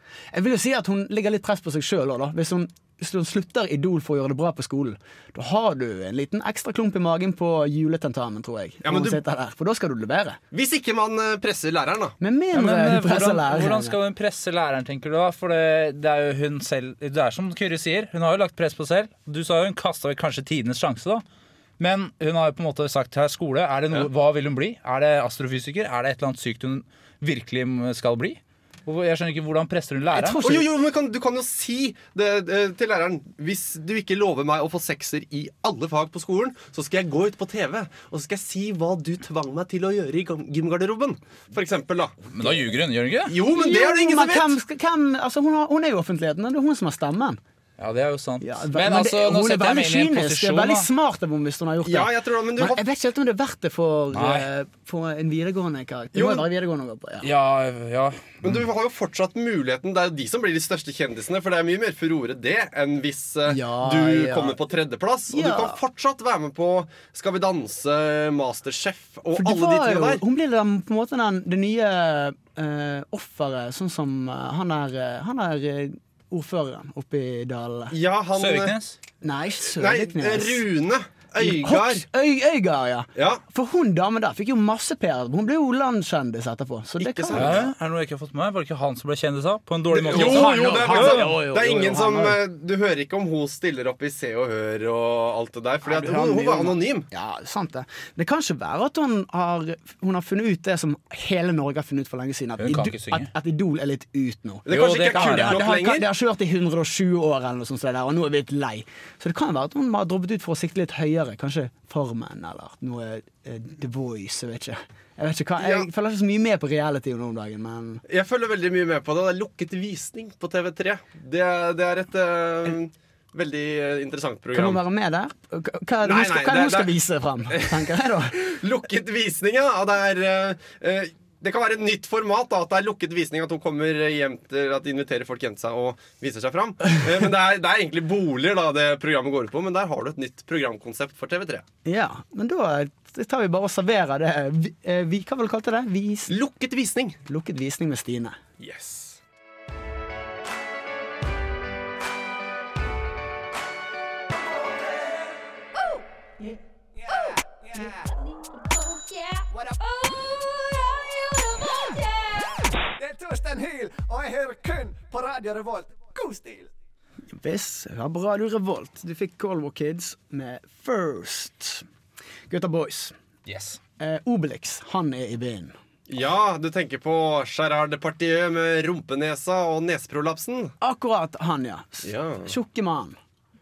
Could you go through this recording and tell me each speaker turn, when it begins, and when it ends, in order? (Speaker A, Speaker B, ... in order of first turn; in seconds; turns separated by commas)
Speaker A: 0.3-10.4, Speaker B: 8.8-9.2, Speaker B: 10.5-12.2, Speaker A: 12.2-14.0, Speaker C: 12.5-21.2, Speaker C: 21.8-30.5, Speaker A: 30.1-30.6, Speaker B: 30.4-42.3, Speaker C: 42.3-43.4, Speaker B: 43.3-44.6, Speaker A: 43.5-47.4, Speaker C: 47.8-50.9, Speaker A: 48.4-57.3, Speaker B: 51.8-52.8, Speaker C: 54.1-54.5, Speaker B: 56.1-56.5, Speaker C: 57.2-58.6, Speaker B: 58.4-70.2, Speaker A: 63.5-64.6, Speaker A: 65.3-65.8, Speaker A: 69.3-78.0, Speaker B: 77.9-78.8, Speaker C: 78.4-79.0, Speaker A: 79.2-80.7, Speaker B: 79.7-82.1, Speaker A: 81.4-87.7, Speaker B: 83.2-83.4, Speaker B: 87.0-87.7, Speaker C: 87.3-91.3, Speaker B: 89.9-97.1, Speaker A: 90.0-92.4, Speaker A: 95.8-118.0, Speaker C: 102.6-103.3, Speaker B: 104.7-106.1, Speaker C: 104.7-105.6, Speaker B: 115.6-115.9, Speaker B: 118.1-124.8, Speaker A: 124.5-128.4, Speaker B: 126.0-126.9, Speaker B: 127.5-141.6, Speaker A: 141.8-146.3, Speaker B: 146.3-147.2, Speaker A: 147.3-148.4, Speaker B: 148.6-149.2, Speaker D: 155.8-156.5, Speaker D: 157.1-162.7, Speaker E: 163.0-166.7, Speaker A: 167.3-171.9, Speaker A: 172.5-173.1, Speaker C: 173.5-173.8, Speaker A: 174.0-175.7, Speaker B: 176.1-180.7, Speaker A: 180.8-183.2, Speaker B: 182.0-182.5